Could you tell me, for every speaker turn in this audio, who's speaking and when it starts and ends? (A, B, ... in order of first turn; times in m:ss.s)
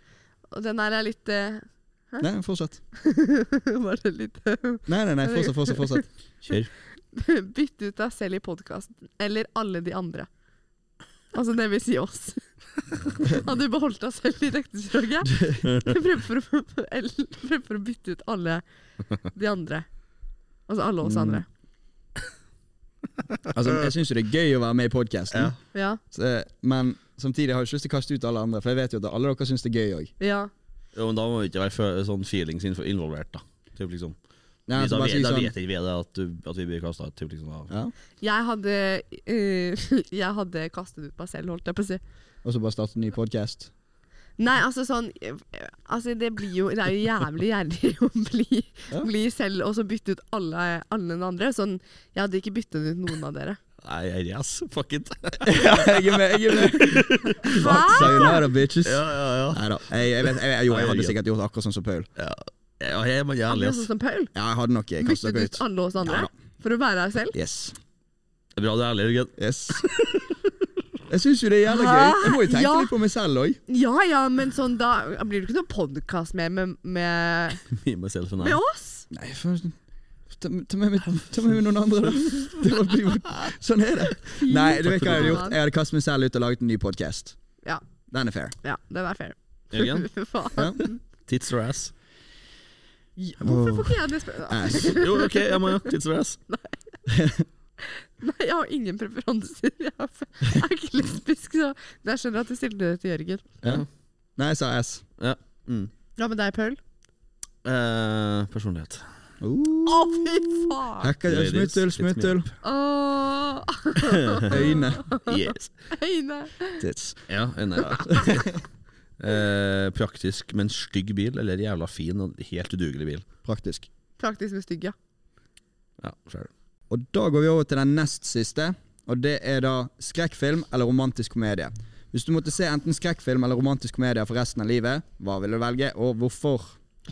0:00.5-0:02.2 A
0:02.2-0:02.8 B
0:02.9-0:06.0 A
0:04.8-0:06.1 B
0:07.1-0:10.3 A
0:11.3-0:12.4 A
0:13.1-0:18.6 A
0:15.3-0:15.6 B
0:19.2-0:19.8 A
0:20.7-0:21.4 A
0:21.0-0:21.4 B
0:23.5-0:25.6 B
0:25.7-0:26.0 A
0:26.1-0:30.1 B
0:30.2-0:30.5 A
0:30.9-0:34.2 C
0:34.7-0:35.5 B
0:34.7-0:37.7 C
0:38.2-0:42.0 A
0:42.4-0:43.7 B
0:44.4-0:53.6 A
0:53.8-0:59.7 C
0:55.4-1:02.1 B
0:57.5-0:58.4 A
1:00.3-1:01.1 C
1:02.2-1:03.9 C
1:03.5-1:04.3 A
1:04.3-1:06.3 B
1:05.0-1:07.4 A
1:07.3-1:07.8 B
1:08.6-1:10.3 C
1:09.4-1:09.8 B
1:11.1-1:13.6 B
1:11.7-1:12.9 A
1:13.7-1:17.6 A
1:17.6-1:18.6 C
1:18.4-1:19.1 A
1:19.1-1:19.8 B
1:20.3-1:27.4 B
1:24.4-1:25.6 A
1:25.1-1:25.4 C
1:28.1-1:28.5 B
1:28.6-1:31.0 A
1:29.7-1:30.1 C
1:30.6-1:30.8 B
1:31.2-1:31.9 C
1:33.2-1:35.8 A
1:33.4-1:35.0 B
1:34.8-1:36.4 C
1:36.5-1:36.8 A
1:37.1-1:37.4 B
1:37.8-1:43.5 A
1:44.4-1:45.0 B
1:45.2-1:45.9 C
1:46.2-1:46.8 A
1:47.6-1:49.0 C
1:49.4-1:52.5 B
1:49.8-1:51.1 A
1:51.2-1:52.4 C
1:52.6-1:56.8 A
1:54.4-1:55.7 C
1:54.5-1:55.0 B
1:56.8-1:57.2 B
1:57.3-1:58.6 C
1:59.2-2:03.2 C
2:03.4-2:03.9 B
2:04.2-2:04.9 A
2:06.0-2:06.5 C
2:06.9-2:16.8 B